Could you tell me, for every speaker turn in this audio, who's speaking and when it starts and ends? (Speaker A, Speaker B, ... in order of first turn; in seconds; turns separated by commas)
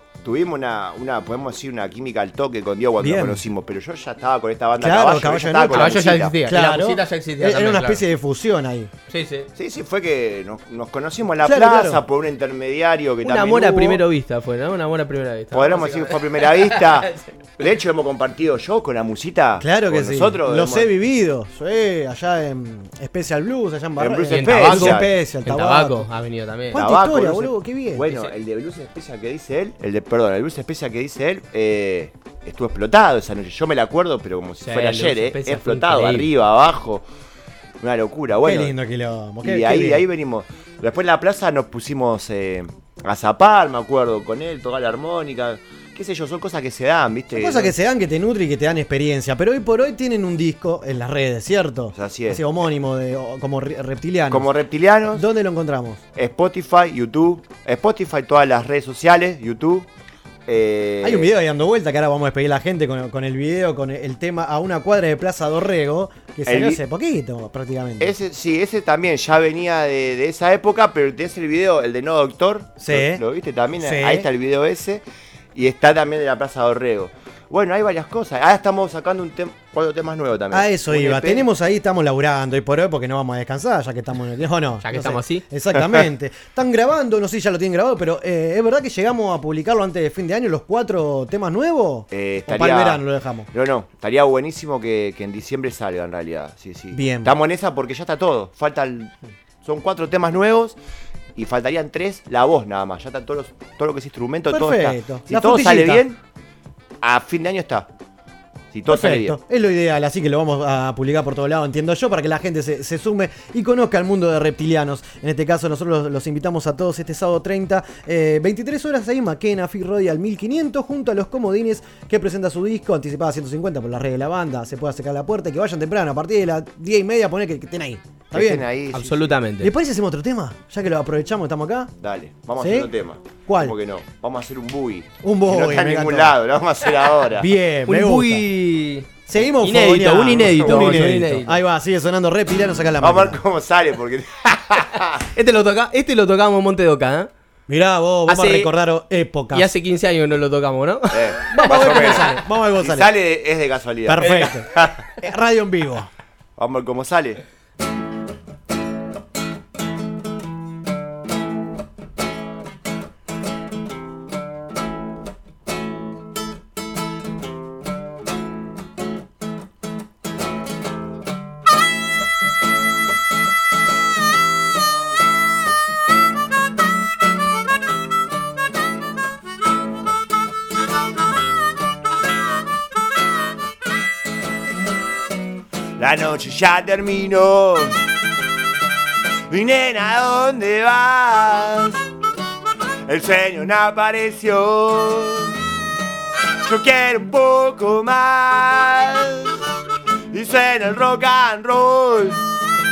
Speaker A: 0.2-6.4, Speaker B: 3.0-3.4, Speaker B: 4.8-8.9, Speaker C: 5.6-8.1, Speaker C: 9.1-9.5, Speaker A: 9.6-14.0, Speaker B: 11.4-12.0, Speaker C: 13.2-17.2, Speaker A: 15.5-20.9, Speaker B: 19.6-26.0, Speaker A: 24.0-25.1, Speaker C: 24.2-26.9, Speaker B: 26.7-28.1, Speaker A: 26.8-37.0, Speaker C: 28.1-28.3, Speaker C: 34.6-36.3, Speaker A: 37.8-38.7, Speaker B: 38.4-40.1, Speaker A: 39.4-47.7, Speaker B: 47.3-54.5, Speaker A: 51.9-52.4, Speaker A: 54.3-55.2, Speaker B: 55.1-56.0, Speaker A: 56.1-59.9, Speaker A: 60.5-61.3, Speaker B: 61.0-68.2, Speaker A: 66.5-66.8, Speaker A: 68.0-75.0, Speaker B: 72.8-73.2, Speaker B: 73.8-74.3, Speaker A: 75.5-81.5, Speaker B: 80.5-93.5, Speaker C: 84.8-85.4, Speaker A: 92.1-99.1, Speaker B: 96.9-97.4, Speaker A: 99.6-100.8, Speaker A: 101.3-106.2, Speaker B: 104.5-106.0, Speaker A: 107.0-107.9, Speaker A: 108.7-109.4, Speaker B: 108.9-128.7, Speaker A: 128.3-129.4, Speaker C: 128.9-129.7, Speaker B: 129.6-131.9, Speaker A: 132.0-137.5, Speaker B: 132.6-132.9, Speaker B: 133.5-133.8, Speaker B: 135.2-136.4, Speaker B: 137.4-138.4, Speaker C: 137.9-139.1, Speaker B: 139.3-143.4, Speaker C: 139.6-141.6, Speaker A: 143.0-145.2, Speaker C: 145.3-147.3, Speaker B: 147.7-149.7, Speaker C: 148.3-148.7, Speaker C: 149.5-152.4, Speaker A: 151.1-154.9, Speaker B: 151.5-153.1, Speaker B: 154.1-154.7, Speaker C: 154.2-154.5, Speaker B: 155.2-156.1, Speaker A: 156.6-157.4, Speaker A: 186.0-188.0, Speaker A: 189.5-192.0, Speaker A: 193.1-195.5, Speaker A: 196.7-199.5, Speaker A: 200.3-202.4